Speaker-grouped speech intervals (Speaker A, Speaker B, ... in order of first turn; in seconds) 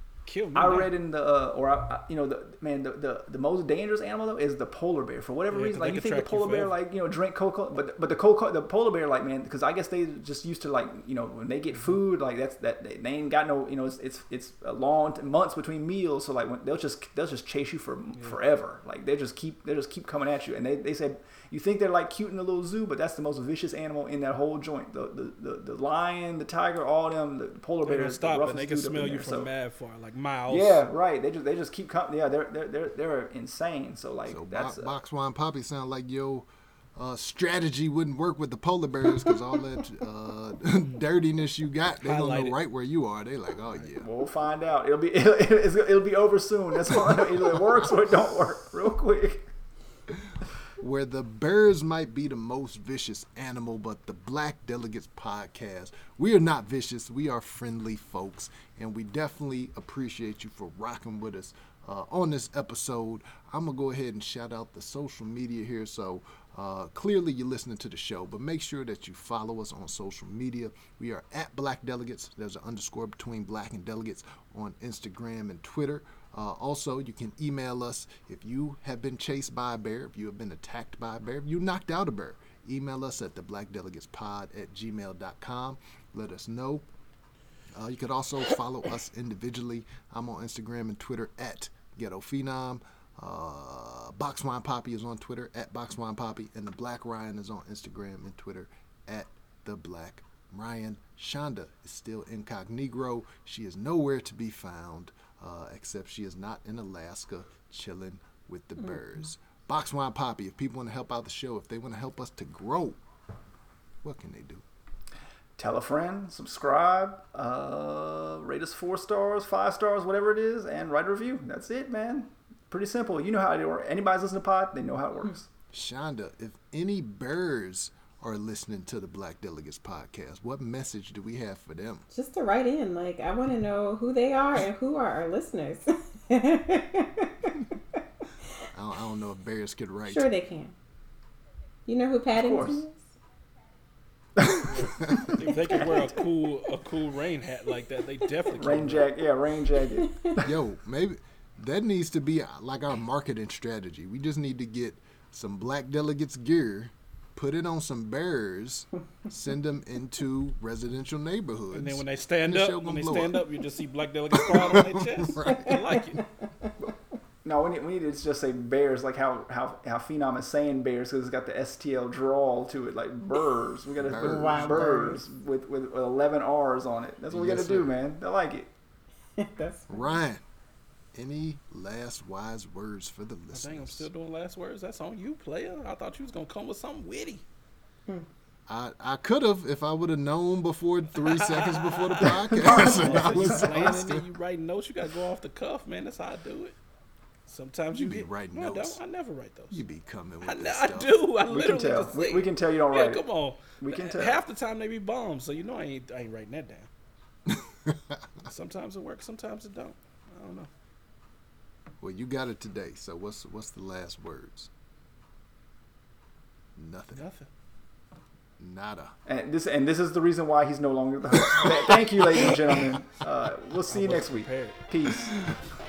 Speaker A: 0.2-0.9, 5.5-6.8, 27.8-30.8, 42.0-42.6, 144.7-149.1, 161.7-166.2, 183.5-187.4, 191.2-196.8, 197.5-199.8, 200.4-206.9, 208.4-210.7, 217.1-217.5, 223.9-224.8
Speaker B: 0.5-29.5, 30.5-34.9, 44.0-49.5, 115.6-125.5, 142.3-142.8, 144.4-144.7, 148.6-150.5, 167.4-178.7, 192.2-194.1, 201.5-203.2, 203.8-204.4, 219.2-225.4
Speaker C: 34.3-44.1, 50.1-86.8, 87.7-113.0, 114.0-114.6, 125.7-132.0, 138.7-140.3, 145.0-145.3, 150.4-163.4, 164.3-165.8, 174.0-175.1, 177.3-178.0, 179.9-180.4, 181.1-184.1, 188.7-194.2, 197.9-199.0, 199.7-201.2, 207.5-208.2, 212.0-214.7, 216.8-217.2, 218.6-219.1, 221.5-221.8
Speaker D: 132.1-137.6, 140.0-140.7, 141.8-143.0, 145.7-146.0, 165.4-166.7, 174.1-175.2, 179.4-180.2